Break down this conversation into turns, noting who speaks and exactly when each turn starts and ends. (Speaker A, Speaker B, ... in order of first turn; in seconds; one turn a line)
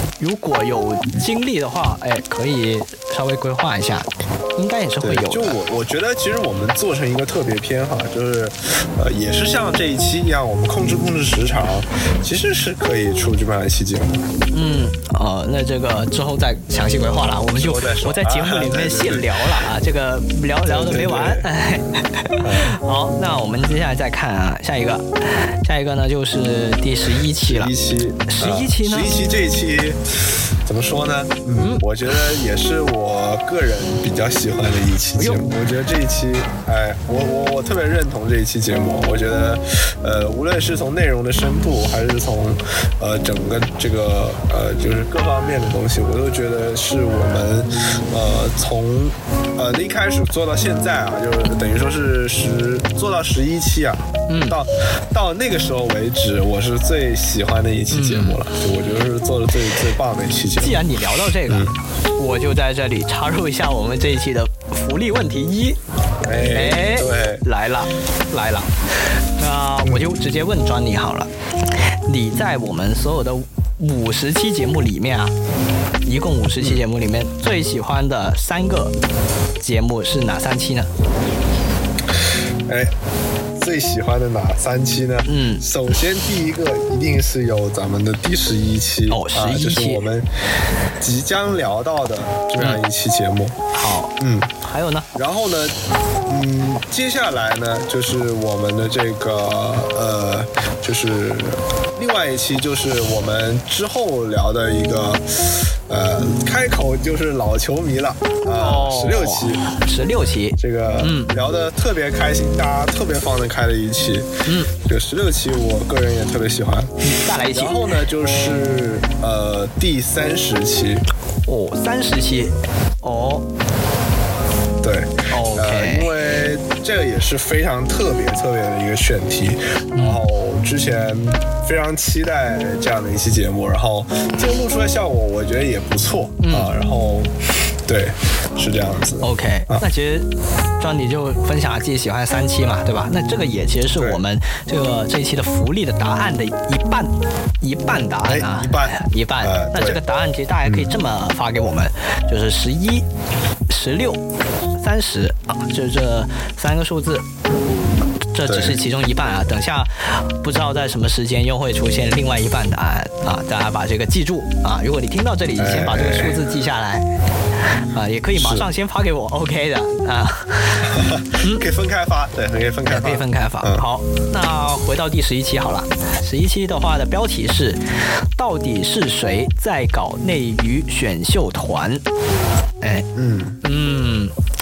Speaker A: 0.2-5.5
Speaker B: 5.0-14.2
Speaker A: 14.5-25.0
Speaker B: 17.5-19.7
Speaker B: 20.6-21.5
Speaker B: 22.4-22.8
Speaker A: 25.6-27.7
Speaker B: 27.4-30.0
Speaker A: 28.3-29.2
Speaker B: 30.6-60.8
Speaker A: 31.6-31.8
Speaker A: 35.2-35.4
Speaker A: 54.3-54.6
Speaker A: 57.9-58.4
Speaker A: 60.6-65.8
Speaker B: 61.5-61.7
Speaker B: 66.2-67.4
Speaker A: 66.5-68.7
Speaker A: 69.4-71.3
Speaker A: 72.1-75.3
Speaker A: 76.0-78.9
Speaker A: 79.6-80.9
Speaker B: 82.7-82.9
Speaker B: 83.6-90.3
Speaker A: 85.3-85.6
Speaker A: 89.1-90.1
Speaker B: 91.0-93.5
Speaker A: 93.7-94.1
Speaker B: 94.2-94.5
Speaker A: 94.6-95.1
Speaker B: 95.1-95.8
Speaker B: 96.3-109.7
Speaker A: 108.5-111.3
Speaker B: 110.6-114.3
Speaker A: 114.5-114.7
Speaker B: 114.8-121.0
Speaker A: 117.0-117.9
Speaker A: 121.5-123.4
Speaker B: 124.8-137.3
Speaker A: 125.3-126.1
Speaker A: 129.9-130.2
Speaker A: 136.4-136.7
Speaker B: 137.8-139.8
Speaker A: 139.2-140.2
Speaker A: 140.8-153.0
Speaker B: 144.0-144.2
Speaker B: 148.2-150.0
Speaker B: 150.6-150.9
Speaker A: 153.7-154.2
Speaker A: 154.8-157.2
Speaker A: 158.3-167.1
Speaker B: 158.4-158.8
Speaker B: 165.6-166.3
Speaker A: 167.9-170.9
Speaker B: 168.3-168.7
Speaker B: 170.9-173.8
Speaker A: 172.9-177.8
Speaker A: 178.4-182.0
Speaker B: 183.1-183.6
Speaker A: 183.6-184.3